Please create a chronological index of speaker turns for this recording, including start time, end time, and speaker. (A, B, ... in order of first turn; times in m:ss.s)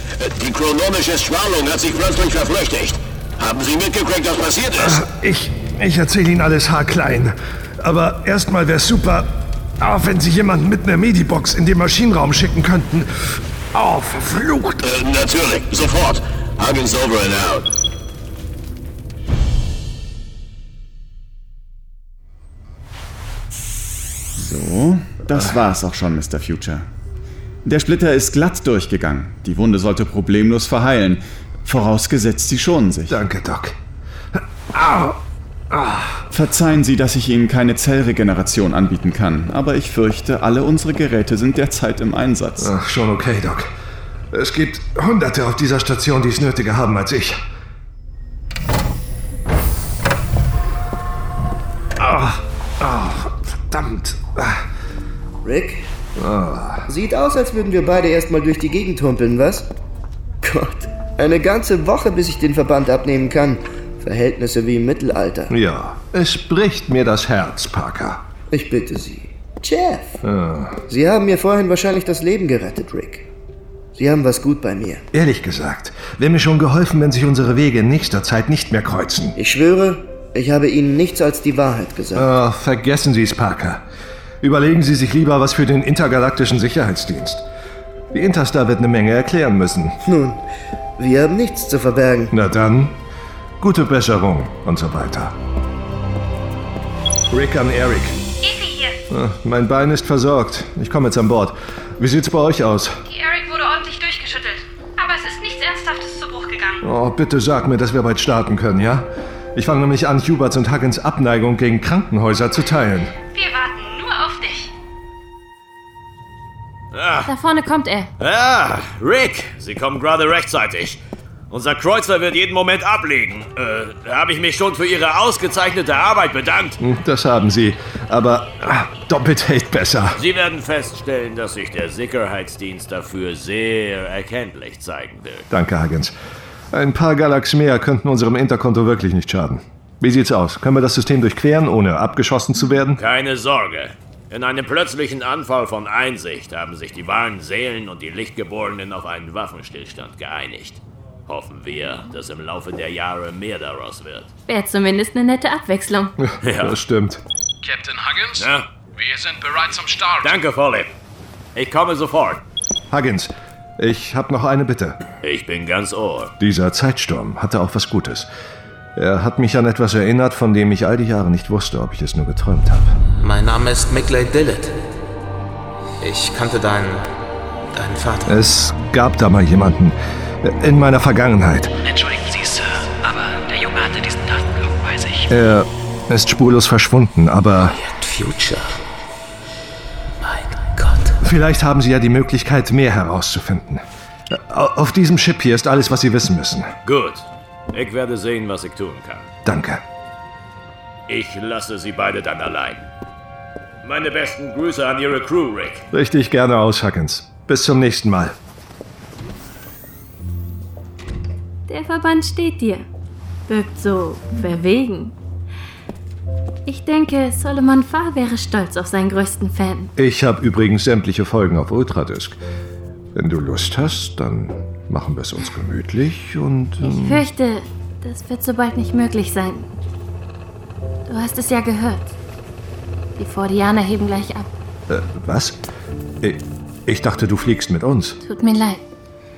0:00.2-0:05.0 A
0:04.8-0:13.1 B
0:13.7-0:14.8 B
0:14.8-0:17.7 A
0:24.4-0:26.9 C
0:27.6-0:33.2 C
0:33.1-0:33.8 B
0:34.3-0:35.2 B
0:35.7-0:36.2 B
0:36.3-0:42.7 C
0:42.6-0:43.7 B
0:44.3-0:47.4 B
0:52.0-0:54.6 B
0:55.4-0:55.9 D
0:56.2-0:56.9 B
0:56.9-0:59.7 D
1:00.4-1:05.5 D
1:05.5-1:08.2 B
1:08.5-1:10.2 D
1:10.2-1:10.8 B
1:10.9-1:13.3 D
1:14.0-1:15.0 D
1:15.1-1:19.4 B
1:19.4-1:22.3 D
1:22.2-1:23.8 B
1:24.4-1:27.4 B
1:28.1-1:30.0 B
1:30.0-1:30.4 D
1:31.0-1:32.3 D
1:32.3-1:33.0 B
1:33.6-1:35.4 B
1:37.3-1:38.2 B
1:39.1-1:43.0 B
1:43.1-1:46.8 E
1:46.8-1:53.1 B
1:53.4-1:54.7 E
1:56.9-1:57.3 F
1:57.3-1:58.1 G
1:58.2-2:01.0 F
2:01.5-2:06.8 F
2:06.8-2:10.2 B
2:10.2-2:15.5 F
2:15.5-2:16.2 B
2:16.7-2:23.0 B
2:23.0-2:34.3 F
2:34.5-2:36.1 G
2:36.2-2:37.2 B
2:36.4-2:36.8 F
2:37.6-2:40.4 H
2:38.4-2:38.7 F
2:40.2-2:40.9 F
2:41.6-2:42.4 F
2:42.9-2:45.0 B
2:45.2-2:46.3 F
2:46.4-2:48.3 B
2:49.0-2:52.9 B
2:53.2-2:54.8 I
2:56.0-2:57.1 I
2:57.7-2:58.3 I
2:58.3-3:01.7 B
3:01.9-3:05.2 J
3:05.3-3:07.8 B
3:07.8-3:08.7 I
3:10.7-3:11.0 I
3:11.2-3:16.7 B
3:16.9-3:19.3 F
3:19.4-3:19.8 B
3:21.1-3:22.8 F
3:23.8-3:25.8 F
3:25.9-3:28.3 B
3:31.7-3:32.8 G
3:33.5-3:35.2 G
3:36.7-3:39.9 G
3:40.0-3:42.4 B
3:43.2-3:47.2 B
3:46.8-3:49.7 G
3:51.1-3:52.2 G
3:53.2-3:54.5 G
3:54.9-3:55.6 B
3:56.2-3:58.2 B
3:58.2-3:58.8 G